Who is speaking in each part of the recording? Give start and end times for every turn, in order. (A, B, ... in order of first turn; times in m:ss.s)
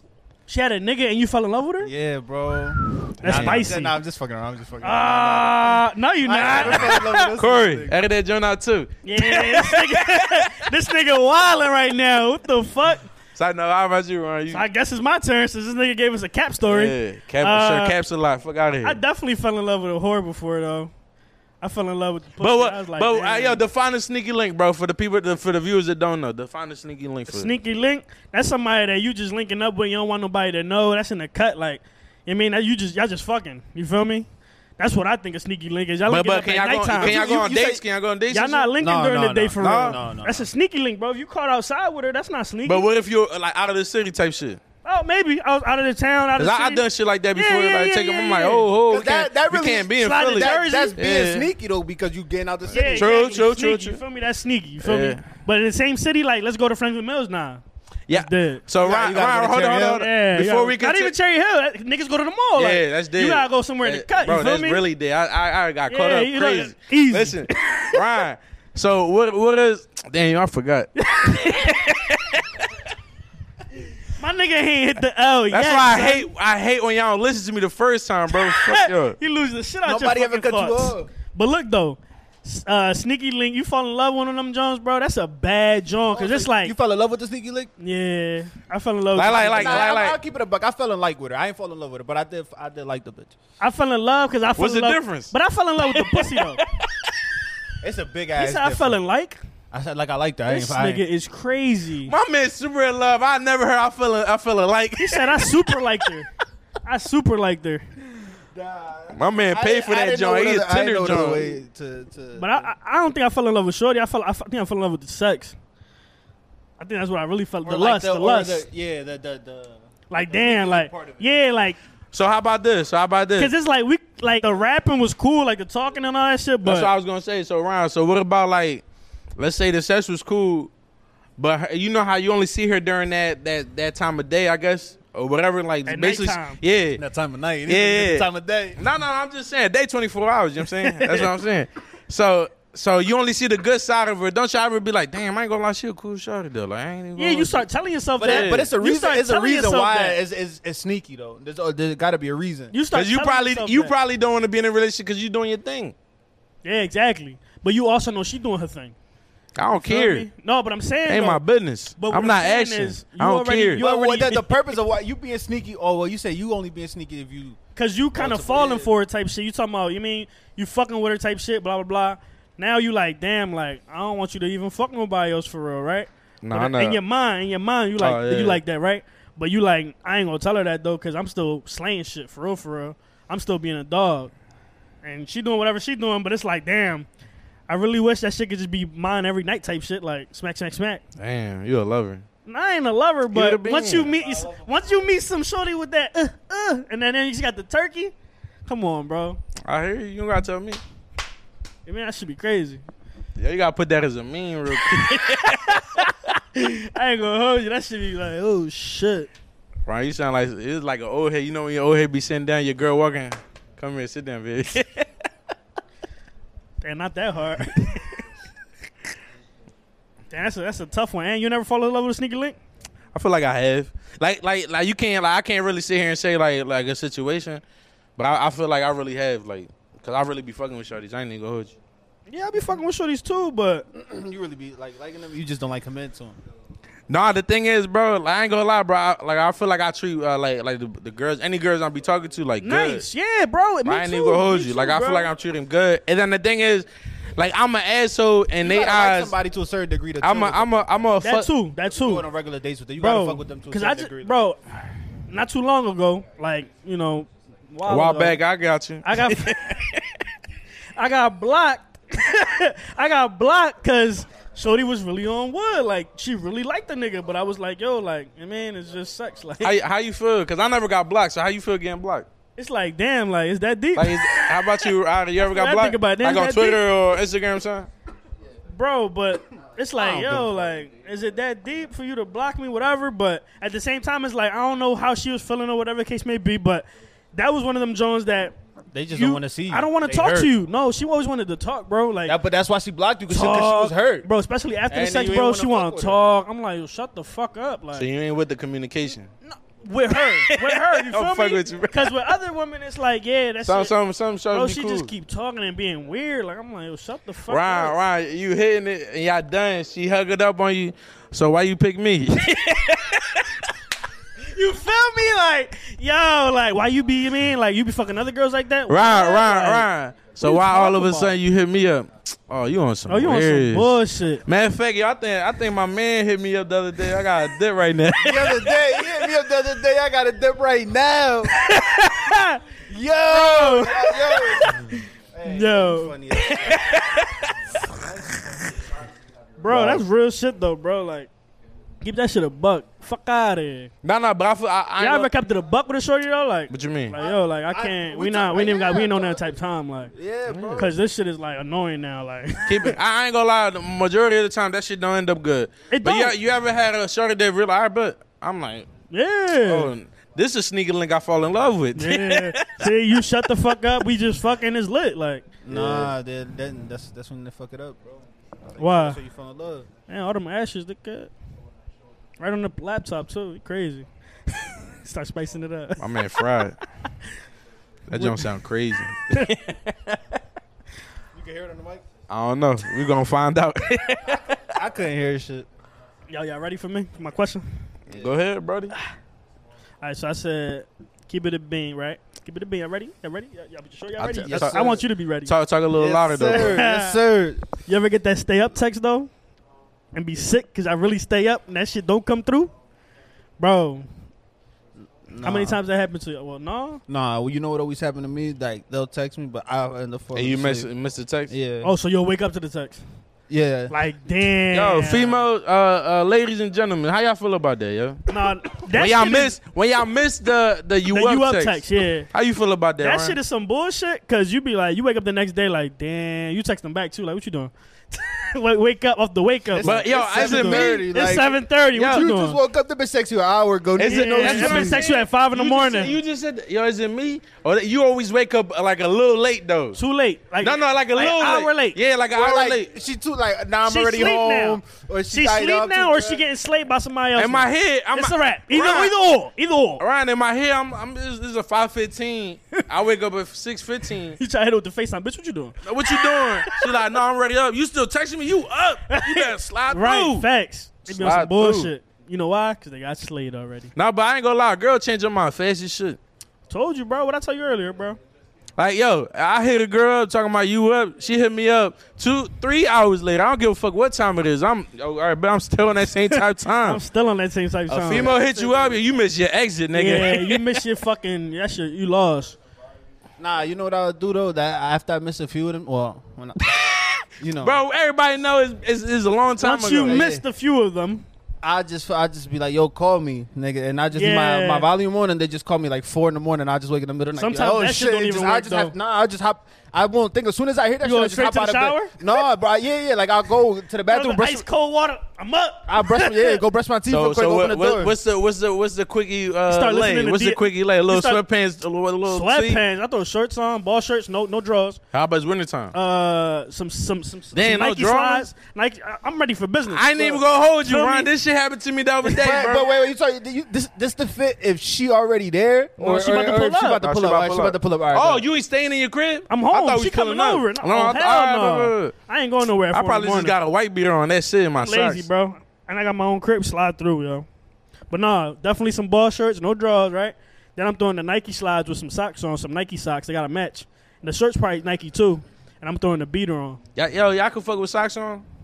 0:00.5-0:01.9 A
0:01.8-0:08.0 B
0:03.2-0:03.9 A
0:03.2-0:03.6 C
0:04.8-0:07.3 A
0:06.4-0:10.6 C
0:09.0-0:13.1 A
0:13.4-0:14.6 C
0:14.5-0:18.0 A
0:16.6-0:19.0 C
0:18.8-0:20.9 A
0:21.6-0:23.6 A
0:22.4-0:27.5 C
0:27.3-0:34.3 A
0:34.8-0:37.2 A
0:36.1-0:38.7 C
0:37.0-0:37.8 B
0:38.3-0:42.9 A
0:38.8-0:40.5 B
0:39.6-0:40.0 C
0:42.6-0:44.6 C
0:44.8-0:46.8 A
0:46.4-0:51.5 C
0:47.4-0:48.7 A
0:48.9-0:53.1 B
0:50.0-0:51.0 A
0:52.7-0:58.6 A
0:52.7-0:54.0 C
0:54.8-0:55.2 C
0:58.1-1:01.1 C
0:58.8-1:00.1 B
0:59.9-1:04.8 A
1:02.6-1:12.6 C
1:05.9-1:08.0 A
1:11.0-1:11.8 A
1:14.2-1:16.3 A
1:15.5-1:19.2 C
1:18.3-1:26.7 A
1:19.8-1:21.1 B
1:26.1-1:27.7 B
1:27.8-1:29.9 A
1:29.2-1:30.2 C
1:29.5-1:33.3 B
1:33.6-1:36.6 A
1:34.6-1:35.3 C
1:35.9-1:37.1 C
1:37.8-1:39.0 B
1:38.4-1:39.4 A
1:39.7-1:41.0 B
1:40.5-1:42.1 A
1:42.1-1:45.8 C
1:45.0-1:46.3 A
1:46.8-1:47.8 A
1:48.3-1:52.7 B
1:49.1-1:51.5 C
1:52.4-1:55.6 A
1:56.8-1:58.6 A
1:57.6-2:01.3 B
2:00.1-2:01.8 A
2:02.1-2:03.5 C
2:03.4-2:06.9 A
2:06.6-2:08.8 C
2:09.4-2:10.7 C
2:11.4-2:17.0 C
2:15.9-2:16.6 A
2:17.0-2:18.8 B
2:17.7-2:27.6 C
2:20.8-2:21.3 A
2:27.2-2:30.2 A
2:28.2-2:32.7 B
2:28.2-2:28.7 C
2:32.7-2:33.9 A
2:32.9-2:36.0 C
2:36.6-2:39.0 A
2:39.6-2:40.3 C
2:39.8-2:41.4 A
2:41.1-2:43.8 C
2:42.0-2:44.5 A
2:43.8-2:47.6 B
2:47.8-3:04.3 A
2:48.2-2:48.9 B
2:56.4-2:57.0 C
2:58.0-2:58.6 C
3:05.0-3:07.1 A
3:07.7-3:11.0 A
3:11.2-3:12.2 C
3:12.5-3:18.1 A
3:13.3-3:14.1 C
3:14.2-3:14.9 B
3:18.7-3:19.4 A
3:19.7-3:20.8 C
3:21.9-3:22.8 A
3:23.4-3:26.1 C
3:24.8-3:29.3 A
3:29.9-3:35.1 C
3:36.8-3:38.2 A
3:40.3-3:42.6 A
3:43.1-3:47.6 C
3:48.2-3:51.8 C
3:52.3-3:53.9 A
3:53.9-3:56.4 B
3:57.1-4:03.1 C
4:02.6-4:05.3 A
4:03.8-4:09.3 C
4:08.6-4:10.9 B
4:10.2-4:11.5 C
4:11.2-4:12.3 A
4:11.9-4:14.4 B
4:13.0-4:14.7 A
4:15.3-4:18.4 A
4:17.9-4:20.2 C
4:19.0-4:19.6 A
4:21.0-4:29.8 A
4:29.6-4:32.3 C
4:32.6-4:34.9 A
4:34.0-4:37.9 C
4:35.4-4:36.8 A
4:38.7-4:48.6 A
4:40.0-4:40.5 B
4:48.9-4:50.5 B
4:49.1-4:52.4 A
4:52.3-4:54.3 B
4:53.3-4:58.1 A
4:54.9-4:56.2 B
4:58.0-4:59.3 C
4:59.4-5:04.0 A
5:00.3-5:02.2 C
5:03.6-5:05.1 C
5:04.5-5:08.0 A
5:07.5-5:13.5 C
5:14.4-5:19.9 A
5:18.9-5:28.9 C
5:20.4-5:21.4 A
5:23.1-5:24.4 A
5:28.2-5:31.5 B
5:31.6-5:32.6 A
5:32.9-5:37.0 B
5:33.3-5:37.0 A
5:36.5-5:37.5 C
5:37.9-5:38.5 B
5:39.6-5:41.3 A
5:39.7-5:40.0 C
5:42.0-5:43.9 A
5:44.0-5:45.3 C
5:45.0-5:50.1 A
5:46.7-5:47.2 C
5:47.2-5:49.4 B
5:50.1-5:50.9 B
5:50.5-5:50.8 C
5:50.8-5:53.0 A
5:52.7-5:58.9 C
5:55.9-5:56.4 A
5:59.1-5:59.9 A
5:59.6-6:02.9 C
6:02.0-6:05.6 A
6:05.6-6:08.2 B
6:05.7-6:06.1 C
6:08.7-6:09.9 B
6:08.8-6:09.2 A
6:10.1-6:11.3 A
6:12.4-6:16.6 A
6:16.0-6:16.8 C
6:18.1-6:19.6 C
6:18.2-6:18.4 B
6:19.3-6:20.2 A
6:21.3-6:22.0 B
6:22.3-6:24.7 C
6:24.7-6:25.7 B
6:26.3-6:27.7 A
6:28.1-6:29.0 C
6:30.0-6:35.5 A
6:34.2-6:36.8 C
6:34.4-6:35.0 B
6:35.9-6:37.6 B
6:36.5-6:37.2 A
6:37.8-6:39.3 A
6:40.1-6:42.7 A
6:43.6-6:44.1 A
6:45.3-6:45.8 B
6:45.4-6:47.0 A
6:47.1-6:50.9 B
6:50.3-6:51.5 C
6:51.5-6:51.9 B
6:51.8-6:53.0 A
6:53.5-6:53.9 B
6:53.9-6:55.4 A
6:54.7-6:58.2 C
6:58.3-6:59.6 A
6:58.8-7:03.4 C
7:01.1-7:02.3 A
7:03.0-7:12.6 A
7:09.7-7:15.0 B
7:09.8-7:11.1 C
7:12.0-7:12.2 C
7:14.0-7:20.0 C
7:14.0-7:16.2 A
7:20.0-7:22.0 A
7:20.6-7:22.9 C
7:22.3-7:26.4 B
7:23.8-7:30.0 A
7:27.4-7:29.2 C
7:30.0-7:34.4 C
7:34.4-7:37.0 A
7:35.8-7:40.5 C
7:39.1-7:43.9 A
7:41.1-7:41.9 C
7:44.0-7:46.2 C
7:46.7-7:48.2 A
7:48.8-7:57.0 C
7:56.8-7:58.8 A
7:57.9-8:00.8 C
7:59.9-8:02.6 A
8:03.4-8:06.8 B
8:06.8-8:10.2 C
8:07.3-8:07.8 B
8:09.6-8:11.3 A
8:10.0-8:10.4 B
8:11.6-8:24.6 B
8:14.1-8:14.9 A
8:17.4-8:18.9 A
8:21.0-8:22.4 A
8:24.1-8:26.6 A
8:25.9-8:28.2 B
8:27.1-8:32.8 C
8:29.7-8:31.4 A
8:32.3-8:35.0 A
8:35.1-8:35.9 C
8:35.9-8:41.3 A
8:37.5-8:38.5 C
8:39.9-8:42.9 C
8:42.3-8:48.4 B
8:46.0-8:47.0 A
8:47.0-8:52.2 C
8:49.5-8:53.6 A
8:52.9-8:55.3 C
8:54.8-8:57.5 A
8:58.1-9:06.8 A
9:07.0-9:08.4 C